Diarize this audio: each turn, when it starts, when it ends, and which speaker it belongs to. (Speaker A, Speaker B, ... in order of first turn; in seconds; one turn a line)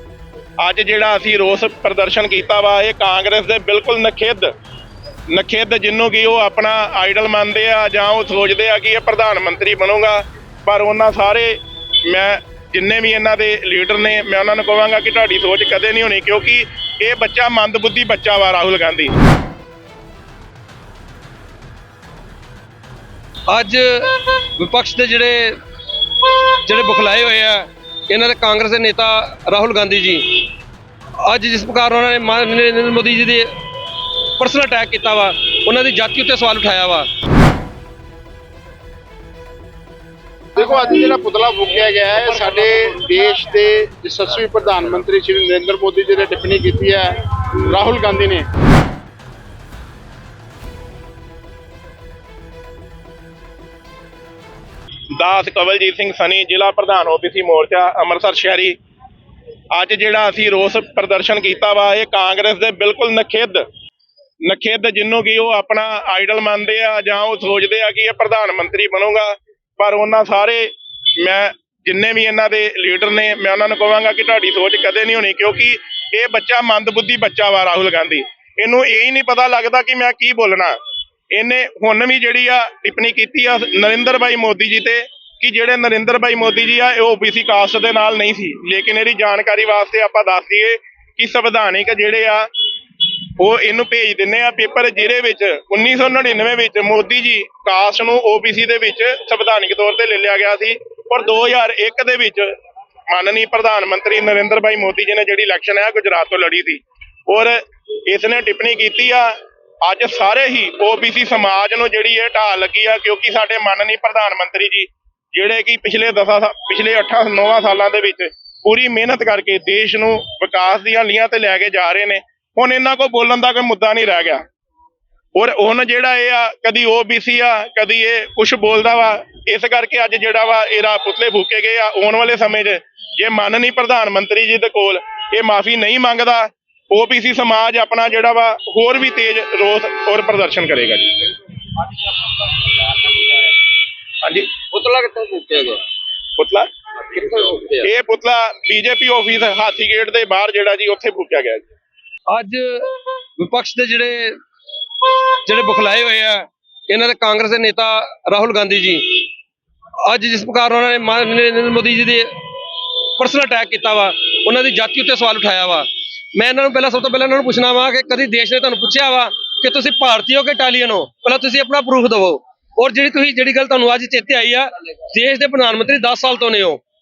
Speaker A: 0.6-4.5
Speaker A: 5.3-19.1
Speaker B: 23.5-25.6
Speaker B: 26.6-30.5
Speaker B: 31.2-33.5
Speaker B: 34.4-37.1
Speaker C: 40.5-47.1
Speaker C: 47.7-48.5
Speaker A: 55.2-58.8
Speaker A: 59.7-63.6
Speaker A: 64.4-80.8
Speaker A: 81.3-92.5
Speaker A: 93.4-102.5
Speaker A: 103.1-124.4
Speaker A: 125.3-141.3
Speaker B: 144.8-145.8
Speaker A: 146.4-146.7
Speaker A: 147.8-151.7
Speaker B: 152.3-154.4
Speaker B: 155.4-159.2
Speaker B: 160.0-162.3
Speaker B: 163.2-176.8